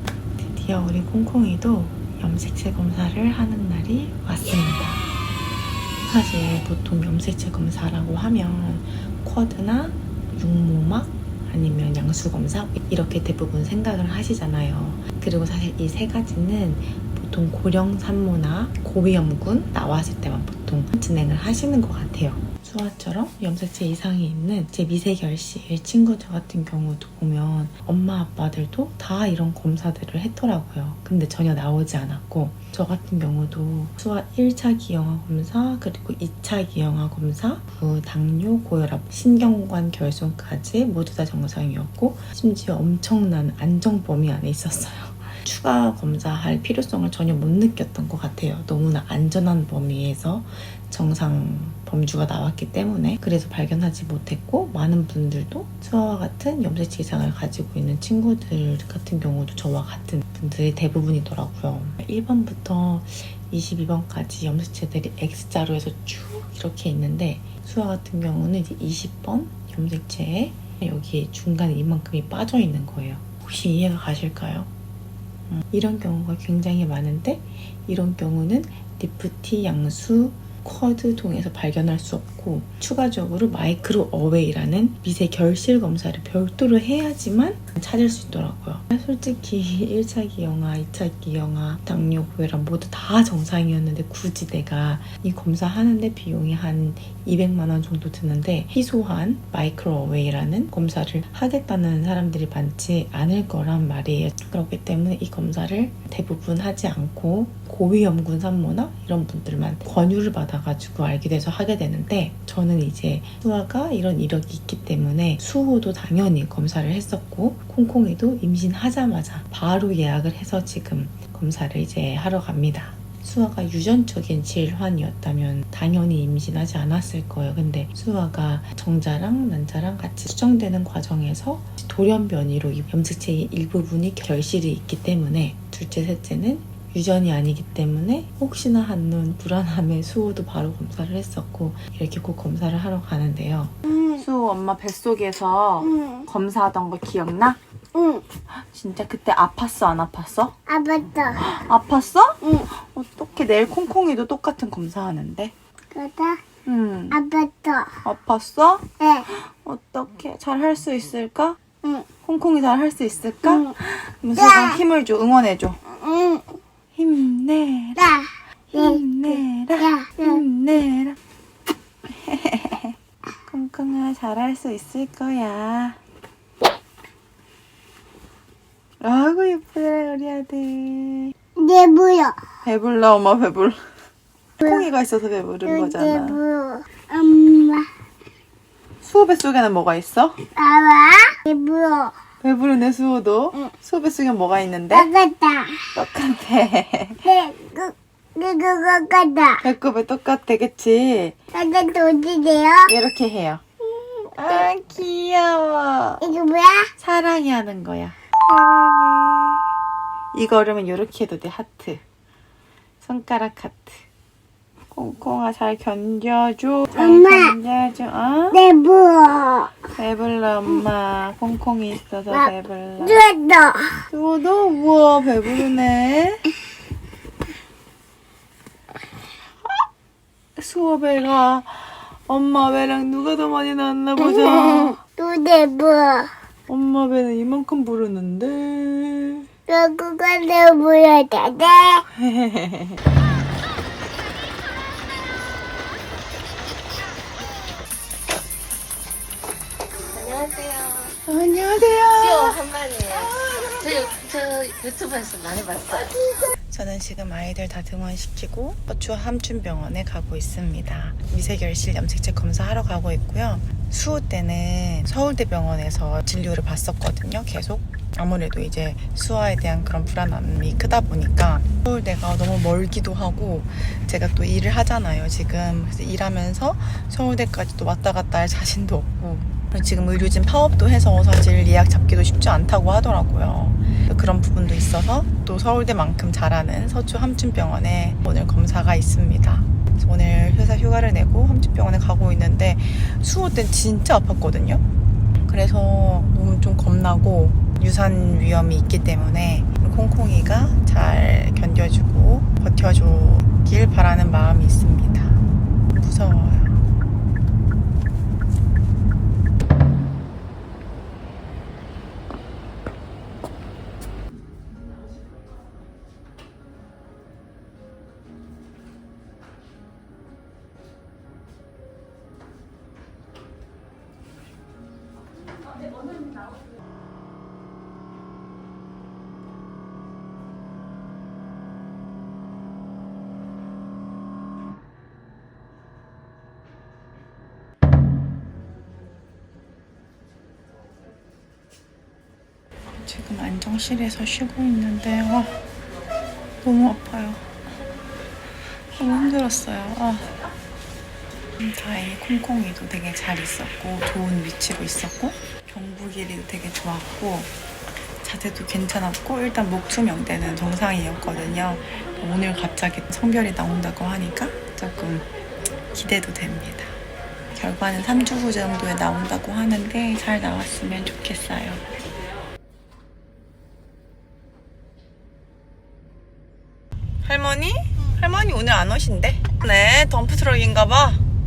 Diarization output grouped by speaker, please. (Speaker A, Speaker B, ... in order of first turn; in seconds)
Speaker A: 0.4-5.0, 6.0-74.7, 75.5-147.6, 148.5-150.6, 151.4-155.5, 156.7-157.2, 158.0-158.8, 159.6-161.6, 162.2-165.8, 166.9-168.1, 168.7-171.2, 172.2-172.9, 173.4-176.0, 179.0-181.3, 182.6-183.8, 184.6-186.4, 189.0-190.4, 192.4-195.1, 195.9-197.2, 199.6-201.4, 202.9-203.6, 204.3-206.2, 207.0-209.6, 210.3-212.0, 213.0-214.0, 214.9-218.6, 219.9-223.2, 224.1-226.4, 230.6-235.0, 236.7-239.5, 242.3-243.0, 251.2-252.6, 253.1-254.1, 256.6-294.8, 295.4-305.4, 305.9-306.8, 343.0-345.5, 346.6-347.6, 348.9-350.5, 351.6-357.5, 358.2-365.3, 365.9-366.9, 367.5-371.8, 377.2-381.2
Speaker B: 143.8-144.2, 145.8-146.3, 147.9-148.2, 150.7-151.4, 155.9-156.4, 157.1-157.9, 159.0-159.3, 163.4-163.7, 164.3-164.8, 165.9-166.6, 168.0-169.0, 169.8-170.4, 181.6-182.3, 184.6-184.9, 185.6-187.8, 190.5-192.1, 194.9-195.8, 197.2-199.6, 201.5-202.9, 204.0-204.3, 206.2-206.9, 216.9-217.5, 218.5-219.7, 223.0-224.0, 234.5-236.3, 239.7-242.0
Speaker C: 250.1-251.1, 252.2-256.2